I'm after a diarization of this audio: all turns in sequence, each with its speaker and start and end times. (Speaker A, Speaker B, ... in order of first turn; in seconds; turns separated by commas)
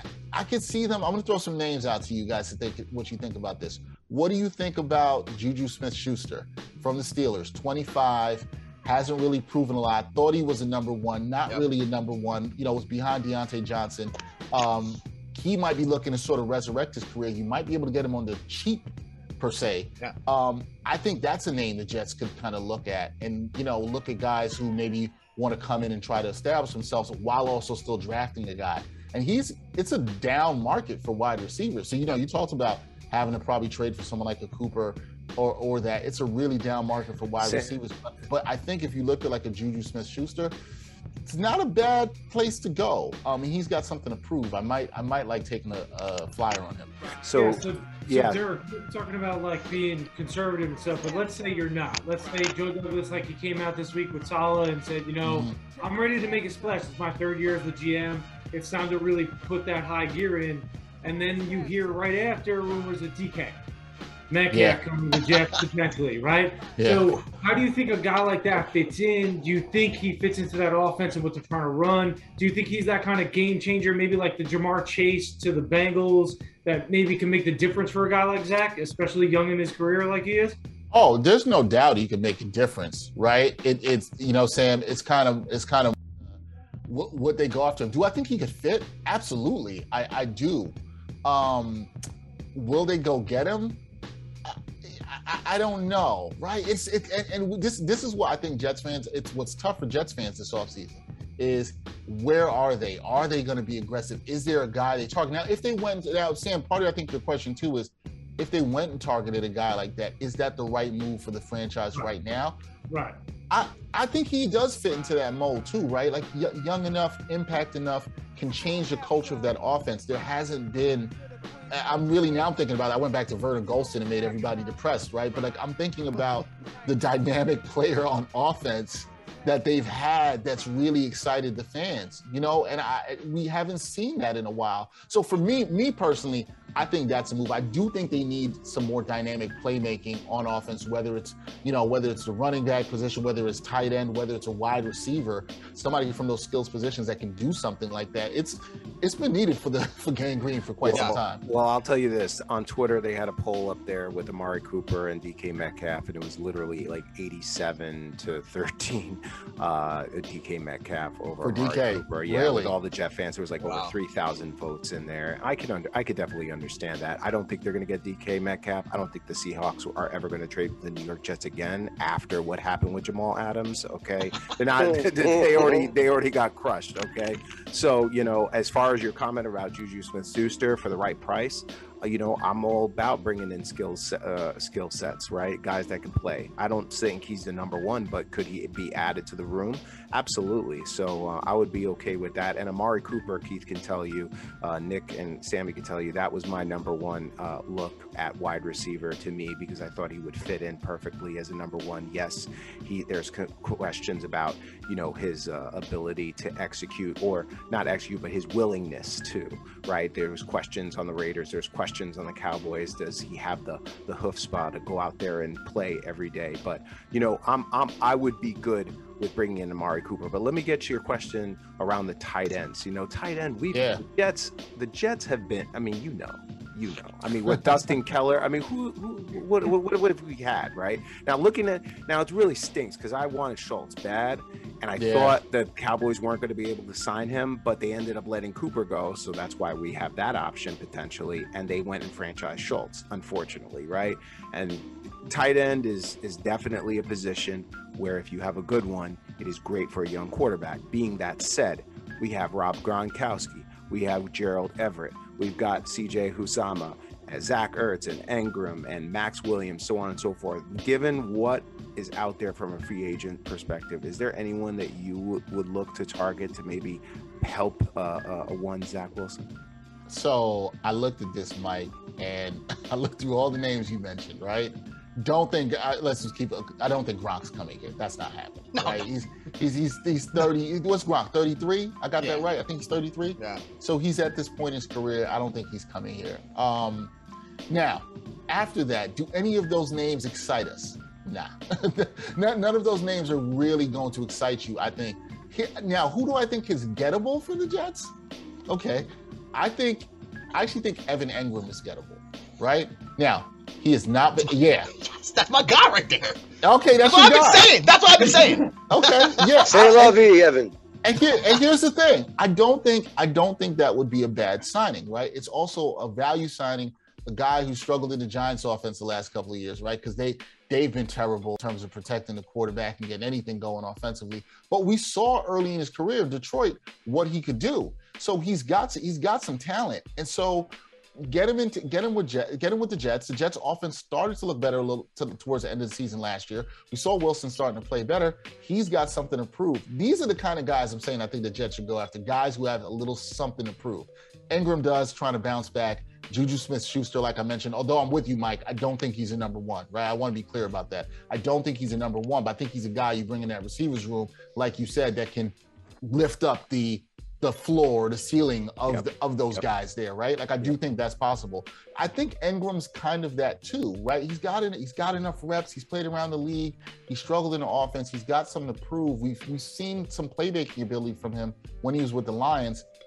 Speaker A: 0.3-40.5, Speaker B: 37.4-37.7, Speaker A: 41.2-47.1, Speaker B: 47.2-48.4, Speaker C: 47.3-63.6, Speaker A: 55.2-55.6, Speaker C: 64.3-80.6, Speaker A: 64.5-64.8, Speaker A: 66.8-67.2, Speaker A: 80.9-86.4, Speaker A: 86.9-91.9, Speaker A: 92.5-93.8, Speaker A: 94.5-112.6, Speaker C: 112.9-113.2, Speaker A: 113.5-121.1, Speaker A: 121.7-151.4, Speaker B: 150.8-269.5, Speaker D: 150.9-151.2, Speaker A: 161.4-162.8, Speaker D: 163.6-163.9, Speaker E: 174.8-175.9, Speaker A: 223.7-224.0, Speaker A: 235.0-235.4, Speaker A: 270.1-287.1, Speaker D: 278.8-279.1, Speaker D: 282.2-282.4, Speaker D: 283.4-283.6, Speaker A: 287.7-298.1, Speaker A: 298.7-304.9, Speaker D: 304.4-306.4, Speaker A: 306.6-310.2, Speaker D: 307.0-309.7, Speaker E: 309.7-310.8, Speaker A: 311.0-372.9, Speaker B: 358.9-359.6